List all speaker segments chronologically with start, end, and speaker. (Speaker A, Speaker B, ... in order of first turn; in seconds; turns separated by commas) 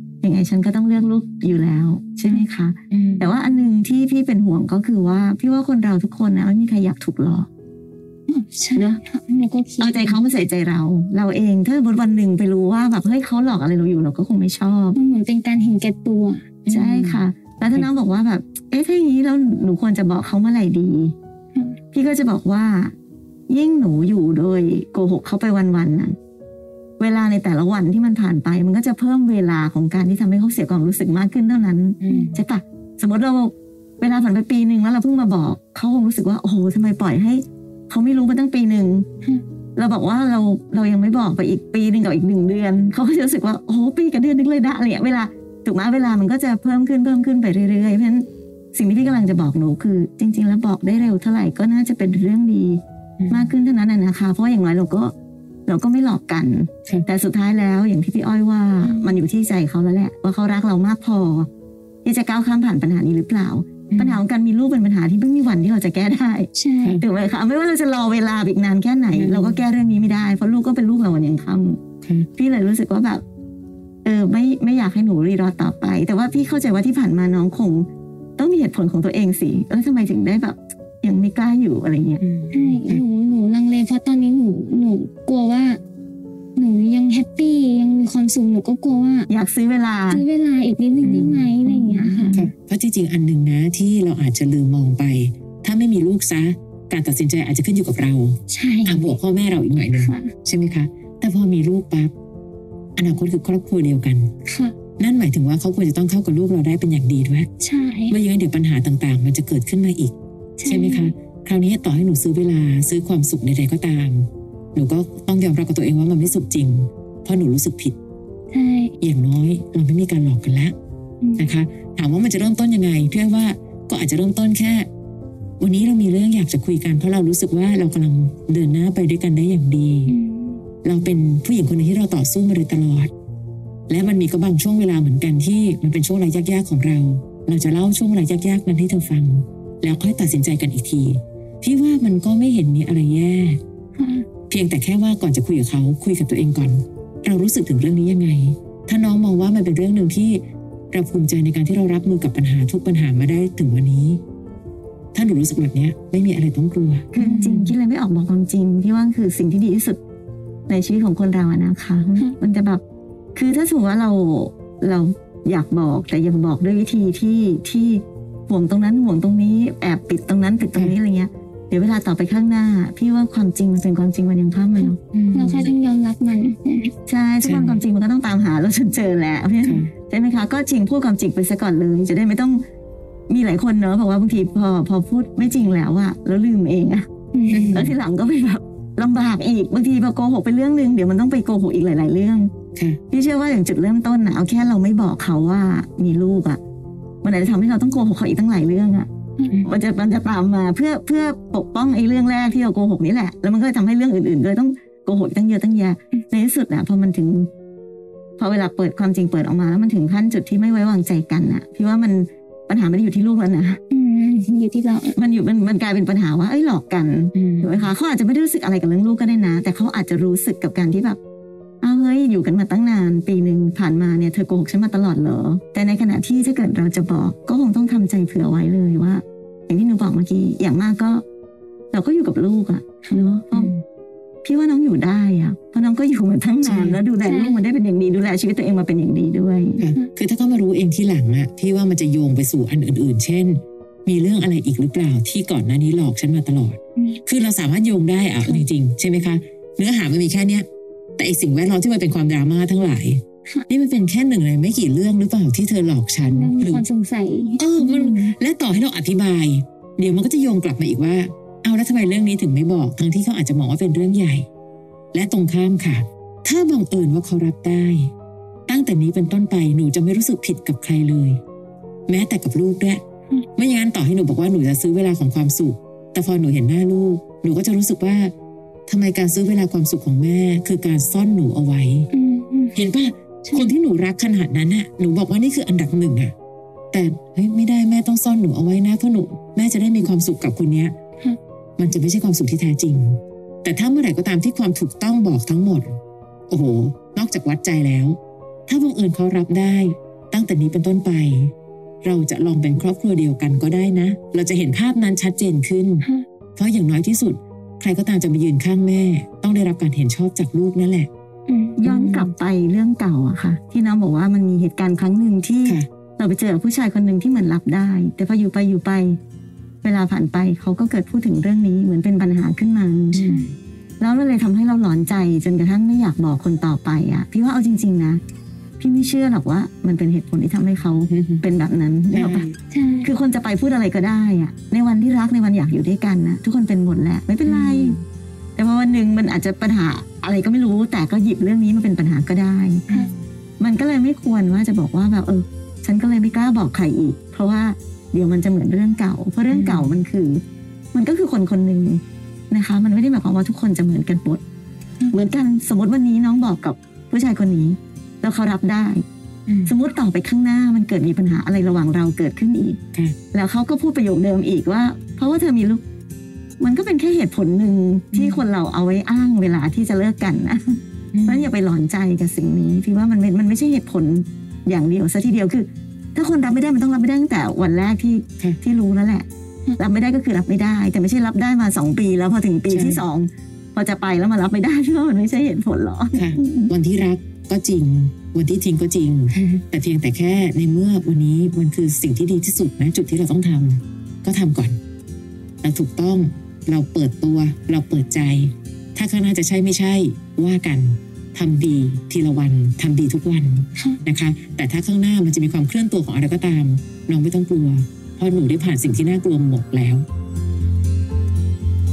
Speaker A: 0.2-7.5, Speaker B: 2.9-3.3, Speaker C: 8.3-10.2, Speaker A: 8.8-9.0, Speaker A: 9.8-15.0, Speaker C: 14.9-16.4, Speaker B: 16.6-17.9, Speaker A: 16.7-21.1, Speaker A: 21.9-22.9, Speaker A: 23.5-26.2, Speaker A: 27.0-39.1, Speaker B: 32.0-32.4, Speaker C: 32.1-32.4, Speaker A: 39.8-55.1, Speaker B: 53.2-53.5, Speaker A: 55.7-61.5, Speaker C: 58.8-59.2, Speaker A: 62.0-71.8, Speaker B: 63.9-64.2, Speaker C: 66.5-67.0, Speaker B: 69.1-69.6, Speaker B: 72.0-72.3, Speaker A: 72.4-73.2, Speaker A: 74.0-77.9, Speaker A: 78.4-82.2, Speaker B: 82.2-83.0, Speaker C: 82.5-85.8, Speaker C: 86.6-89.3, Speaker A: 89.3-90.3, Speaker C: 90.1-92.4, Speaker B: 91.0-91.5, Speaker A: 91.7-92.4, Speaker B: 92.3-102.1, Speaker C: 98.5-99.1, Speaker C: 99.9-100.3, Speaker B: 103.0-104.3, Speaker C: 104.5-104.8, Speaker B: 105.0-107.5, Speaker C: 107.6-108.2, Speaker B: 108.1-110.1, Speaker C: 110.6-111.1, Speaker B: 110.7-118.0, Speaker C: 118.5-118.9, Speaker B: 119.0-120.7, Speaker C: 121.2-121.5, Speaker B: 121.4-124.9, Speaker B: 125.6-130.2, Speaker C: 130.1-130.6, Speaker B: 130.8-133.1, Speaker B: 133.9-143.6, Speaker C: 144.0-144.2, Speaker B: 144.5-154.2, Speaker B: 155.1-157.1, Speaker A: 157.1-160.0, Speaker C: 157.2-157.7, Speaker A: 160.7-162.8, Speaker A: 163.4-175.0, Speaker C: 174.8-176.9, Speaker B: 175.1-175.7, Speaker A: 177.1-182.6, Speaker B: 177.4-177.8, Speaker B: 179.6-179.9, Speaker A: 183.3-187.1, Speaker C: 187.3-187.8, Speaker B: 187.5-188.0, Speaker A: 187.7-192.5, Speaker A: 193.1-196.6, Speaker A: 197.2-199.1, Speaker C: 199.4-199.6, Speaker A: 199.6-207.5, Speaker A: 208.4-213.8, Speaker C: 213.9-215.2, Speaker A: 215.2-221.2, Speaker B: 217.3-217.9, Speaker A: 221.8-231.2, Speaker A: 231.9-233.7, Speaker B: 233.5-233.8, Speaker A: 234.4-239.9, Speaker B: 236.6-237.0, Speaker C: 237.2-237.6, Speaker B: 239.8-250.7, Speaker B: 251.2-256.9, Speaker C: 256.3-258.3, Speaker B: 257.6-264.5, Speaker B: 265.1-268.1, Speaker B: 268.7-271.4, Speaker B: 272.1-273.0, Speaker B: 273.6-278.3, Speaker B: 278.9-282.1, Speaker C: 282.1-282.8, Speaker B: 282.8-286.3, Speaker B: 286.9-290.9, Speaker B: 291.8-296.0, Speaker B: 296.5-306.1, Speaker B: 306.6-311.1, Speaker C: 311.5-312.2, Speaker A: 311.8-319.2, Speaker B: 311.9-312.2, Speaker A: 319.8-323.2, Speaker B: 323.1-323.5, Speaker C: 323.2-323.5, Speaker A: 324.0-328.2, Speaker A: 328.8-332.5, Speaker B: 331.1-331.4, Speaker B: 332.1-332.6, Speaker C: 332.7-333.1, Speaker A: 333.0-338.0, Speaker B: 337.4-338.0, Speaker A: 338.6-342.9, Speaker B: 342.9-343.2, Speaker A: 343.6-350.4, Speaker B: 349.5-350.0, Speaker A: 350.9-354.4, Speaker A: 355.1-359.0, Speaker B: 359.5-359.7, Speaker A: 359.7-362.8, Speaker A: 363.3-365.8, Speaker A: 366.6-379.3, Speaker B: 368.1-368.4, Speaker B: 371.1-371.5, Speaker A: 379.8-386.7, Speaker B: 382.7-383.0, Speaker B: 386.1-394.8, Speaker B: 395.6-410.1